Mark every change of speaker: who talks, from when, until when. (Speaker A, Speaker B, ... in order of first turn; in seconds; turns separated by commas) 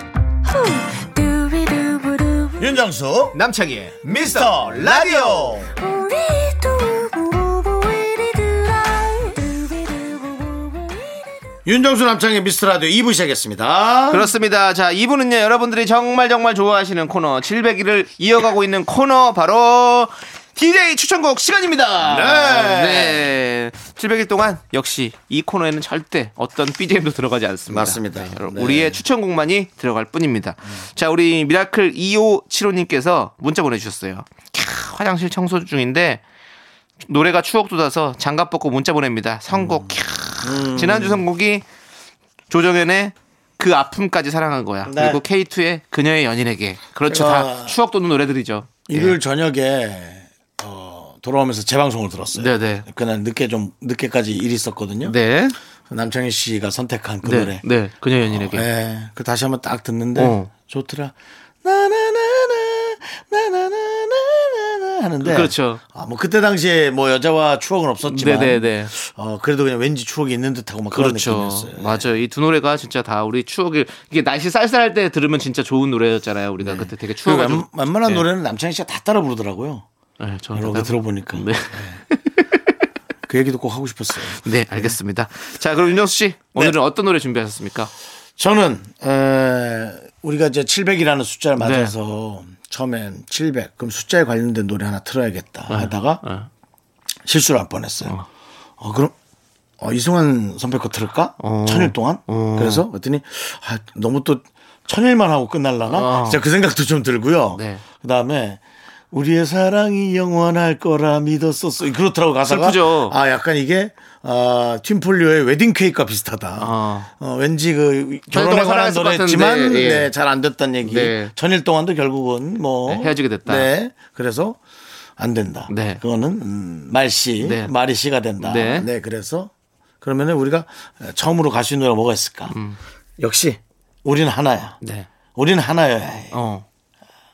Speaker A: 0.4-2.7, Speaker B: 2.6-3.4, Speaker C: 3.3-5.6, Speaker B: 4.0-5.7, Speaker A: 5.8-11.4, Speaker B: 11.6-14.3, Speaker C: 14.1-36.2, Speaker B: 22.0-23.2, Speaker B: 27.7-29.0, Speaker C: 37.0-41.6, Speaker B: 39.5-41.2, Speaker C: 42.5-49.2, Speaker B: 44.8-45.2, Speaker B: 47.1-47.8, Speaker B: 48.9-55.1, Speaker C: 52.3-52.8, Speaker C: 55.0-55.6, Speaker B: 55.9-57.6, Speaker C: 57.2-58.7, Speaker B: 58.3-72.0, Speaker C: 60.1-60.5, Speaker C: 65.2-65.8, Speaker C: 68.1-68.9, Speaker C: 70.9-78.2, Speaker B: 76.6-79.8, Speaker C: 80.2-82.6, Speaker B: 80.5-82.0, Speaker B: 83.3-84.9, Speaker C: 84.4-87.9, Speaker B: 88.4-96.2, Speaker C: 91.6-91.9, Speaker C: 95.7-96.5, Speaker B: 97.2-98.2, Speaker B: 98.8-99.1, Speaker B: 99.8-124.6, Speaker C: 101.4-102.8, Speaker C: 105.9-106.4, Speaker C: 107.5-107.8, Speaker C: 112.5-113.1, Speaker C: 116.6-117.1, Speaker C: 118.3-120.1, Speaker C: 120.8-121.3, Speaker C: 122.8-123.7, Speaker B: 125.2-132.6, Speaker C: 125.7-126.0, Speaker C: 127.4-127.7, Speaker C: 128.4-128.9, Speaker C: 132.5-132.8, Speaker B: 133.2-134.8, Speaker C: 134.8-135.1, Speaker B: 135.3-136.4, Speaker C: 136.3-136.6